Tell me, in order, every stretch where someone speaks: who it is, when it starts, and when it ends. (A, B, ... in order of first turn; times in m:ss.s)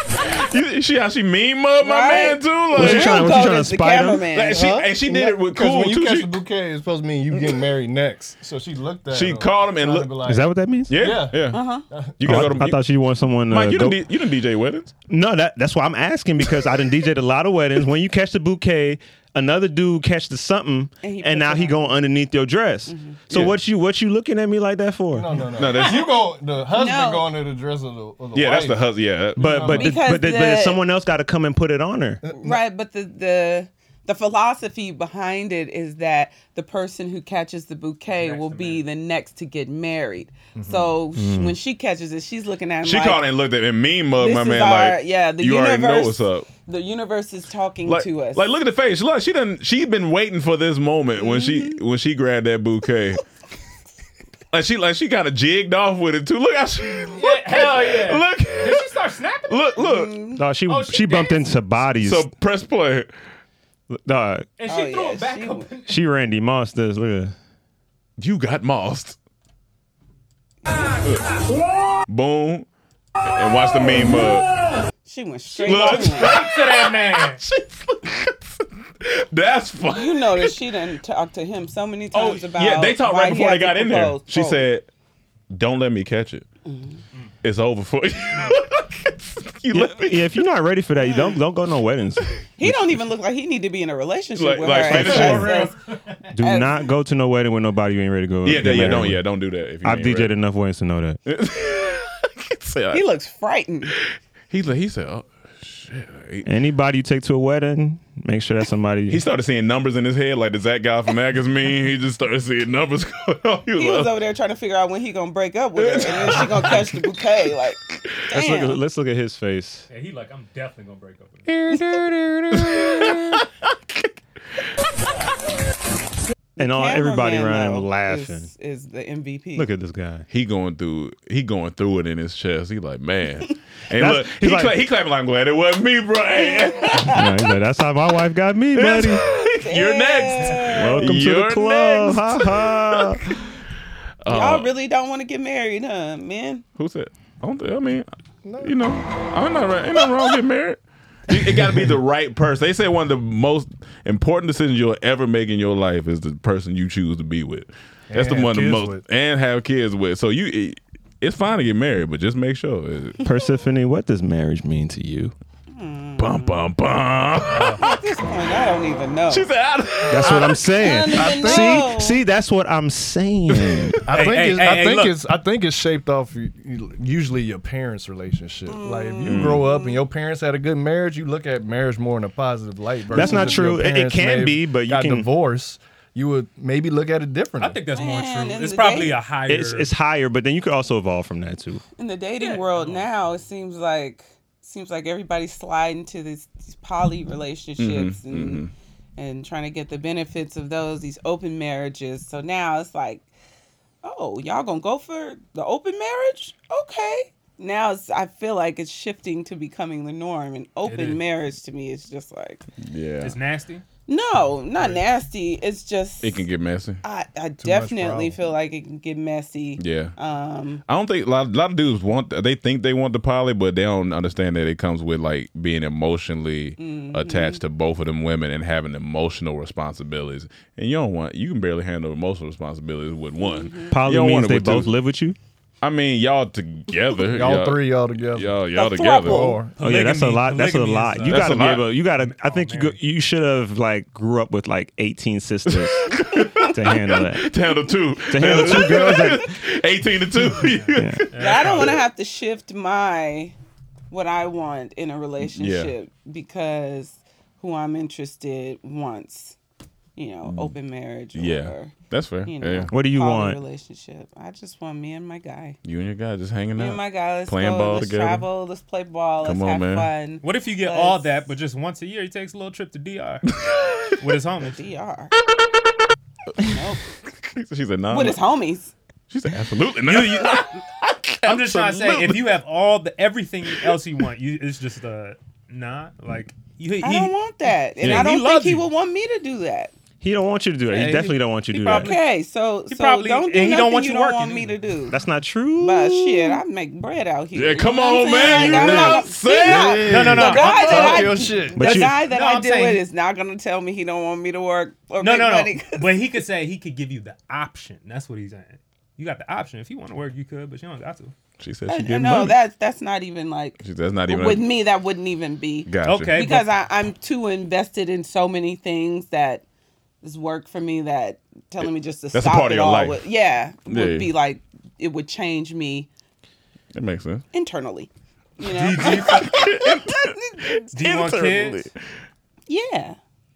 0:00.2-0:03.2 A
0:01.8-0:04.6 B
0:02.7-0:04.3 C
0:04.3-0:06.4 A
0:04.5-0:12.5 D
0:09.1-0:10.2 A
0:10.2-0:10.9 C
0:10.9-0:12.8 A
0:11.5-0:11.8 B
0:12.2-0:14.0 C
0:13.5-0:14.9 A
0:15.1-0:25.3 C
0:21.0-0:22.0 B
0:22.9-0:23.2 B
0:25.1-0:28.8 D
0:25.6-0:26.0 A
0:26.8-0:27.3 B
0:28.3-0:29.8 A
0:29.4-0:29.8 D
0:29.4-0:32.2 C
0:29.7-0:30.8 B
0:32.2-0:32.6 D
0:32.4-0:43.2 B
0:38.1-0:38.8 E
0:40.6-0:40.9 D
0:41.2-0:41.6 C
0:42.8-0:46.5 A
0:44.2-0:48.4 B
0:47.9-0:53.2 A
0:51.2-0:51.8 B
0:54.5-0:58.9 A
0:57.1-0:59.8 E
0:59.5-1:00.2 A
0:59.8-1:00.4 B
1:00.4-1:02.3 C
1:00.6-1:01.6 E
1:02.0-1:03.1 A
1:03.9-1:04.5 C
1:04.6-1:06.0 E
1:04.7-1:05.7 B
1:05.9-1:07.3 C
1:08.2-1:09.2 A
1:12.1-1:12.7 A
1:13.3-1:14.5 A
1:15.0-1:16.4 B
1:15.5-1:17.4 E
1:15.6-1:20.6 A
1:19.9-1:24.6 B
1:22.1-1:24.9 A
1:25.5-1:26.4 A
1:26.6-1:27.0 B
1:27.4-1:30.3 A
1:29.7-1:33.0 C
1:31.0-1:31.4 B
1:32.6-1:35.8 B
1:34.4-1:35.7 A
1:34.9-1:35.5 C
1:34.9-1:35.8 E
1:36.3-1:39.2 C
1:36.4-1:36.9 B
1:38.4-1:40.3 A
1:39.8-1:41.2 C
1:41.3-1:43.0 A
1:42.9-1:43.9 B
1:44.5-1:46.5 A
1:46.4-1:49.2 C
1:49.1-1:54.1 A
1:53.8-1:58.8 B
1:55.8-1:57.0 A
1:58.3-1:59.9 C
1:59.9-2:01.5 E
2:01.5-2:03.4 C
2:02.6-2:04.1 A
2:06.6-2:08.5 C
2:06.6-2:09.7 B
2:09.6-2:10.2 C
2:10.3-2:17.1 A
2:14.0-2:14.8 C
2:16.4-2:17.2 B
2:17.0-2:19.2 C
2:18.8-2:23.2 A
2:19.6-2:21.1 B
2:20.7-2:23.2 C
2:24.2-2:24.7 A
2:24.3-2:26.6 B
2:26.8-2:28.1 A
2:28.4-2:28.8 D
2:28.6-2:43.2 A
2:38.1-2:39.0 D
2:43.2-2:45.3 C
2:45.7-2:46.6 B
2:46.2-2:48.0 A
2:47.5-2:47.8 E
2:47.8-2:49.5 B
2:49.3-2:50.6 A
2:50.1-2:54.0 C
2:50.7-2:52.2 B
2:51.1-2:51.8 D
2:53.5-2:53.8 A
2:54.1-3:07.8 D
2:54.1-2:55.2 E
2:58.7-3:00.0 B
2:59.2-2:59.6 A
3:03.1-3:05.3 C
3:03.2-3:03.5 E
3:03.2-3:03.5 B
3:07.6-3:09.9 E
3:07.9-3:09.2 B
3:09.5-3:11.8 C
3:12.0-3:18.6 B
3:12.4-3:13.1 E
3:17.8-3:18.7 A
3:19.2-3:23.3 B
3:24.0-3:32.7 B
3:30.8-3:31.2 E
3:32.8-3:33.4 A
3:33.2-3:33.8 E
3:34.1-3:36.5 B
3:34.8-3:35.0 E
3:36.2-3:37.0 A
3:37.0-3:40.8 B
3:37.6-3:38.4 D
3:39.8-3:40.2 A
3:40.9-3:54.9 A
3:46.8-3:47.6 B
3:53.4-3:53.9 B
3:53.9-3:55.4 C
3:55.8-3:59.5 A
3:57.3-3:58.5 D
3:58.8-3:59.6 B
3:59.2-3:59.8 D
3:59.8-4:03.0 E
3:59.8-4:06.1 C
4:01.2-4:01.9 A
4:05.7-4:12.0 A
4:06.3-4:06.6 B
4:06.7-4:07.5 C
4:08.3-4:09.5 C
4:10.5-4:12.1 E
4:11.0-4:11.2 C
4:11.4-4:13.6 B
4:14.1-4:19.6 B
4:15.4-4:15.9 A
4:20.2-4:21.9 B
4:20.5-4:20.7 A
4:21.3-4:22.9 A
4:22.5-4:25.8 B
4:22.9-4:23.6 C
4:25.8-4:28.5 A
4:26.8-4:31.3 B
4:29.4-4:30.1 A
4:30.4-4:33.5 E
4:33.5-4:34.2 A
4:34.2-4:34.8 E
4:34.6-4:35.3 B
4:36.6-4:37.0 B
4:37.3-4:38.4 A
4:38.1-4:38.9 B
4:39.3-4:42.5 A
4:40.1-4:40.8 E
4:41.4-4:48.9 E
4:43.7-4:44.0 A
4:47.0-4:49.9 B
4:48.0-4:48.3 A
4:50.2-4:52.2 C
4:50.9-4:52.2 E
4:51.8-4:55.2 B
4:52.9-4:54.9 E
4:55.1-4:56.6 C
4:55.8-5:06.2 B
4:57.6-5:00.4 A
4:58.4-4:59.2 E
4:59.0-5:01.9 D
5:00.0-5:03.0 E
5:01.8-5:02.2 C
5:05.2-5:11.3 E
5:11.6-5:12.6 A
5:11.9-5:19.6 B
5:13.8-5:14.7 A
5:15.9-5:16.4 A
5:16.0-5:16.7 E
5:20.2-5:26.1 B
5:22.3-5:23.2 A
5:23.9-5:24.3 A
5:26.9-5:27.4 A
5:27.5-5:30.9 B
5:28.7-5:29.6 E
5:29.0-5:30.4 A
5:30.9-5:31.9 E
5:31.0-5:31.9 A
5:32.7-5:33.2 B